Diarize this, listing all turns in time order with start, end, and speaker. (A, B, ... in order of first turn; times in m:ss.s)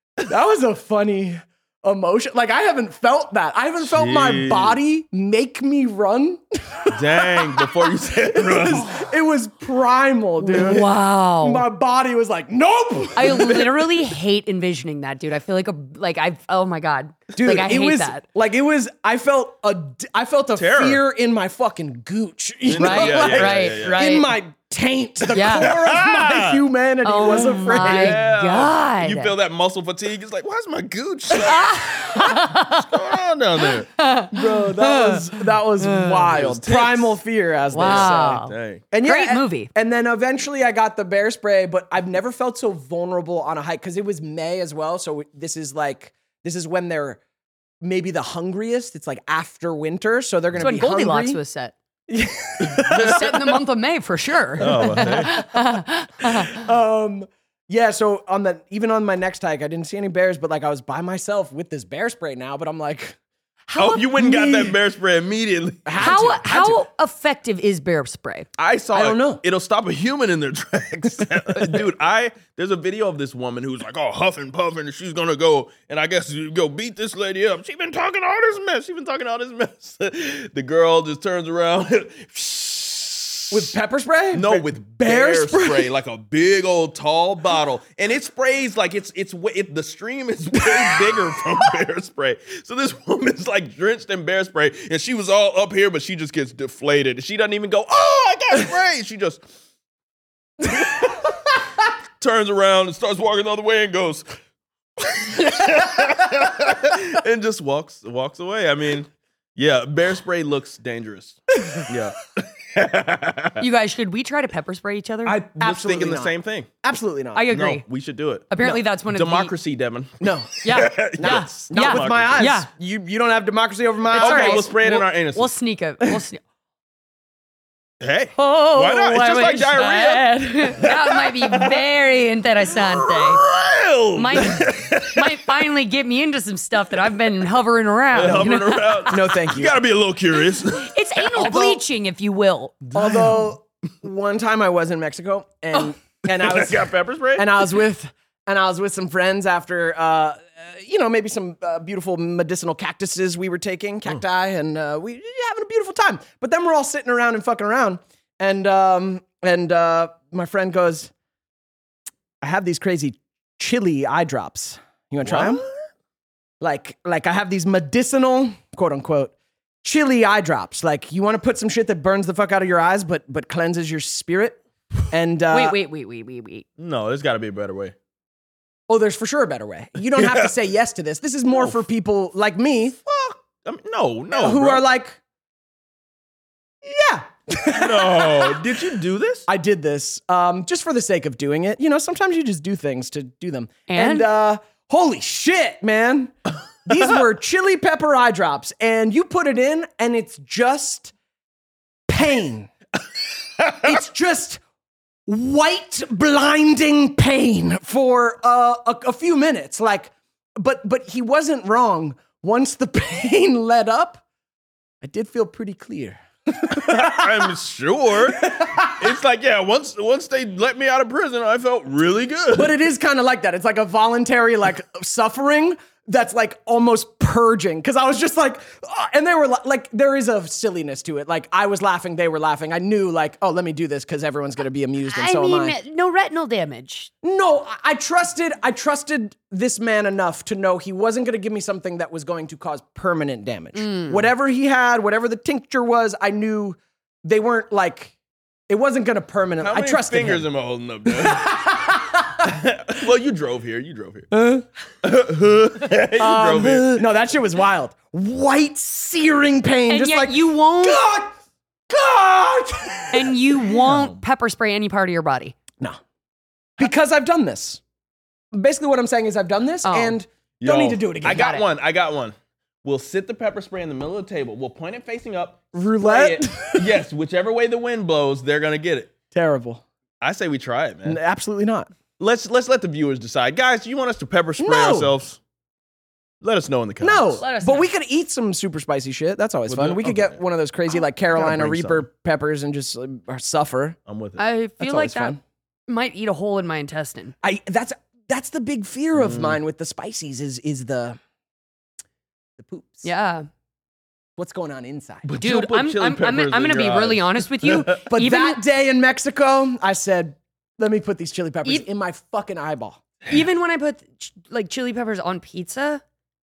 0:00.2-0:10.9 A
0:03.8-0:04.8 B
0:06.9-0:09.0 B
0:10.4-0:11.6 C
0:11.4-0:14.1 A
0:13.2-0:18.2 C
0:17.4-0:28.2 A
0:20.6-0:21.0 B
0:22.7-0:24.1 B
0:22.8-0:24.3 C
0:25.3-0:26.6 B
0:25.3-0:25.7 C
0:27.0-0:29.3 C
0:27.7-0:33.9 B
0:31.4-0:32.9 C
0:33.7-0:36.3 C
0:34.3-0:47.2 A
0:36.3-0:37.2 B
0:37.7-0:38.8 B
0:37.7-0:39.7 C
0:47.8-0:51.4 A
0:50.6-0:51.8 C
0:52.1-0:53.4 A
0:52.6-0:53.4 B
0:52.9-0:56.6 C
0:54.6-0:55.4 B
0:54.6-0:55.6 A
0:56.3-1:03.2 A
1:03.7-1:06.1 B
1:03.8-1:04.0 C
1:04.1-1:04.8 A
1:05.9-1:06.8 A
1:06.0-1:08.5 C
1:08.6-1:23.7 B
1:08.9-1:09.4 A
1:23.5-1:25.9 A
1:24.3-1:39.4 B
1:40.6-1:41.3 B
1:42.2-1:44.2 B
1:45.0-1:53.6 B
1:53.6-1:55.4 C
1:55.3-1:56.3 A
1:55.5-1:56.7 B
1:56.8-1:57.5 A
1:57.4-1:57.8 C
1:57.5-2:02.5 B
1:58.5-1:59.5 C
2:00.2-2:04.8 A
2:00.6-2:02.7 C
2:04.1-2:06.4 C
2:04.2-2:05.5 B
2:08.0-2:11.9 B
2:08.4-2:13.4 C
2:12.7-2:15.5 B
2:14.2-2:19.2 C
2:18.1-2:21.7 B
2:19.1-2:19.8 A
2:20.7-2:22.8 C
2:21.4-2:21.8 A
2:22.8-2:23.5 B
2:22.9-2:41.1 A
2:26.3-2:27.7 B
2:42.4-2:45.6 A
2:45.2-2:45.7 B
2:46.6-2:55.8 A
2:55.5-2:56.7 C
2:56.8-2:57.9 B
2:58.9-3:03.0 A
3:00.2-3:00.5 B
3:03.0-3:04.8 B
3:04.3-3:05.2 A
3:06.8-3:09.0 A
3:07.7-3:09.5 B
3:09.5-3:16.3 A
3:13.9-3:14.3 C
3:16.8-3:21.1 A
3:22.1-3:22.7 A
3:23.6-3:23.9 B
3:23.8-3:24.6 A
3:25.3-3:34.2 A
3:35.0-3:37.5 A
3:36.7-3:42.7 B
3:38.2-3:39.2 A
3:42.5-3:55.8 A
3:55.1-3:57.1 C
3:57.2-4:08.1 A
4:03.8-4:04.3 C
4:08.7-4:10.4 A
4:09.6-4:11.6 B
4:11.1-4:12.6 A
4:12.4-4:14.3 B
4:14.3-4:14.6 A
4:15.0-4:17.0 B
4:16.2-4:21.4 A
4:19.9-4:21.0 C
4:21.9-4:23.5 A
4:23.1-4:25.6 C
4:23.8-4:24.2 B
4:26.8-4:27.8 A
4:28.5-4:31.5 A
4:29.8-4:30.2 C
4:30.6-4:39.2 B
4:31.3-4:31.6 C
4:35.7-4:37.0 A
4:39.3-4:39.8 A
4:40.2-4:41.2 B
4:41.1-4:41.9 A
4:42.2-4:45.4 B
4:44.6-4:45.1 A
4:46.4-4:47.4 B
4:47.0-4:54.0 A
4:47.4-4:47.9 C
4:49.7-4:50.4 B
4:51.3-4:52.1 B
4:54.1-4:54.4 B
4:54.4-4:55.4 C
4:54.8-4:55.4 A
4:55.9-4:57.3 C
4:57.4-5:01.2 A
4:59.2-4:59.6 B
5:02.6-5:03.1 A
5:03.0-5:03.5 C
5:04.4-5:05.3 A
5:05.2-5:08.0 B
5:05.4-5:08.6 C
5:08.0-5:13.0 A
5:13.3-5:16.0 C